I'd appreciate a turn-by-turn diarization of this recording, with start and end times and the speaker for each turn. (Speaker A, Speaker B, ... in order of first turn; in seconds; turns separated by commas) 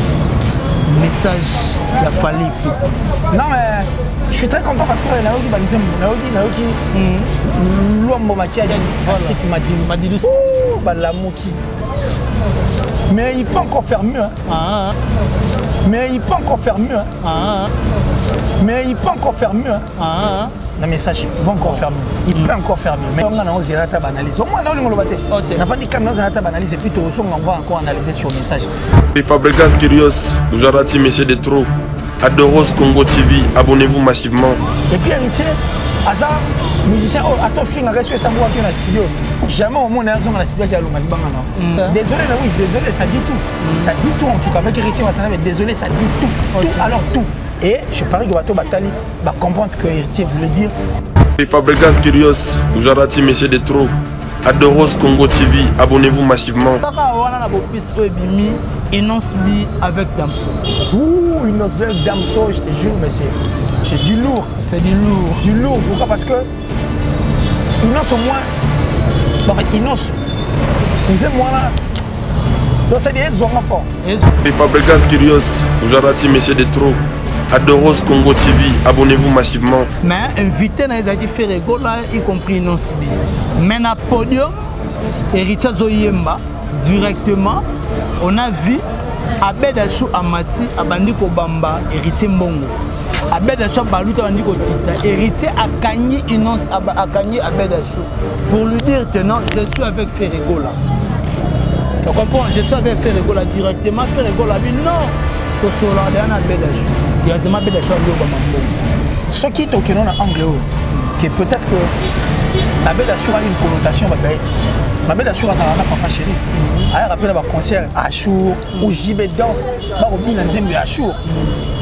Speaker A: 0.8-2.8, Speaker B: 3.3-6.8, Speaker A: 6.9-7.3, Speaker B: 7.5-11.6, Speaker A: 8.7-10.6, Speaker B: 13.1-14.4, Speaker A: 14.5-14.9, Speaker B: 15.8-17.1, Speaker A: 17.2-17.7, Speaker B: 18.6-19.9, Speaker A: 20.0-20.5, Speaker B: 20.8-28.7, Speaker A: 25.3-25.7, Speaker C: 29.1-31.7, Speaker C: 32.2-34.6, Speaker B: 34.9-50.7, Speaker A: 41.6-42.0, Speaker A: 43.6-44.0, Speaker A: 46.5-46.9, Speaker C: 51.4-53.9, Speaker C: 54.4-56.8, Speaker A: 56.8-60.6, Speaker B: 60.9-64.5, Speaker A: 64.6-65.5, Speaker B: 65.4-66.5, Speaker B: 67.8-68.5, Speaker B: 69.5-70.2, Speaker B: 71.1-71.8, Speaker B: 72.9-73.9, Speaker A: 74.0-74.3, Speaker C: 74.4-77.0, Speaker C: 77.5-79.9, Speaker A: 80.0-84.5, Speaker A: 85.3-87.7, Speaker A: 88.2-88.8, Speaker A: 89.4-92.8, Speaker A: 93.3-100.8, Speaker A: 102.0-108.8, Speaker B: 109.3-111.9, Speaker B: 112.8-114.4, Speaker B: 115.1-121.2, Speaker A: 116.5-116.9, Speaker A: 121.3-121.6